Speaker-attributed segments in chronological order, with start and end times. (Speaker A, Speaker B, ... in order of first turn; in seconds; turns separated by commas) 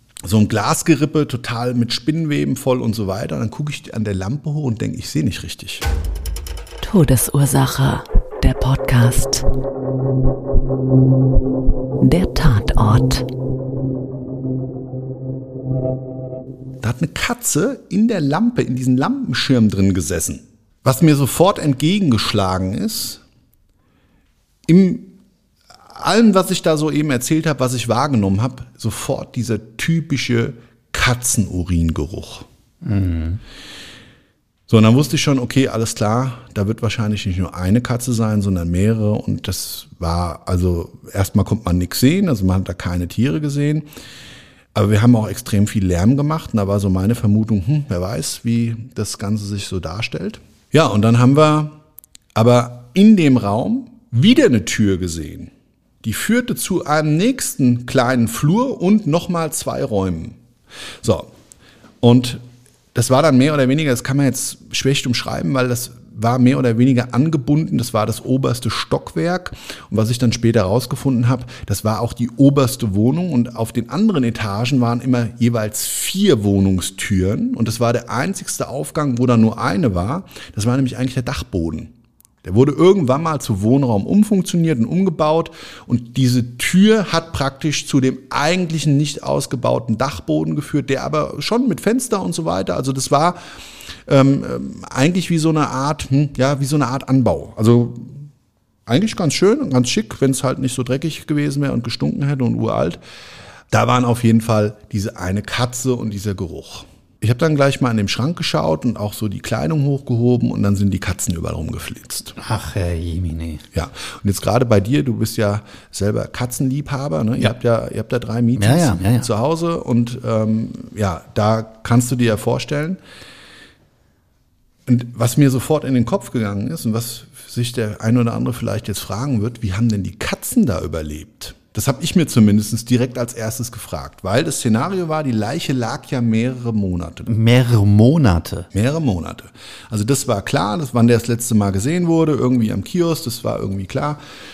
Speaker A: 0.2-5.8, Speaker B: 6.8-9.4, Speaker B: 12.0-13.3, Speaker A: 16.8-23.2, Speaker A: 24.7-25.2, Speaker A: 25.9-32.5, Speaker C: 32.8-33.4, Speaker A: 34.7-43.9, Speaker A: 44.7-51.8, Speaker A: 52.3-55.5, Speaker A: 56.0-60.4, Speaker A: 61.0-61.3, Speaker A: 62.0-62.4, Speaker A: 62.9-81.9, Speaker A: 82.4-93.4, Speaker A: 94.0-98.3, Speaker A: 98.9-103.0, Speaker A: 103.7-112.3, Speaker C: 112.4-113.6, Speaker A: 113.7-123.0, Speaker C: 118.6-119.3, Speaker A: 124.9-137.3, Speaker C: 137.3-138.7, Speaker A: 138.7-144.2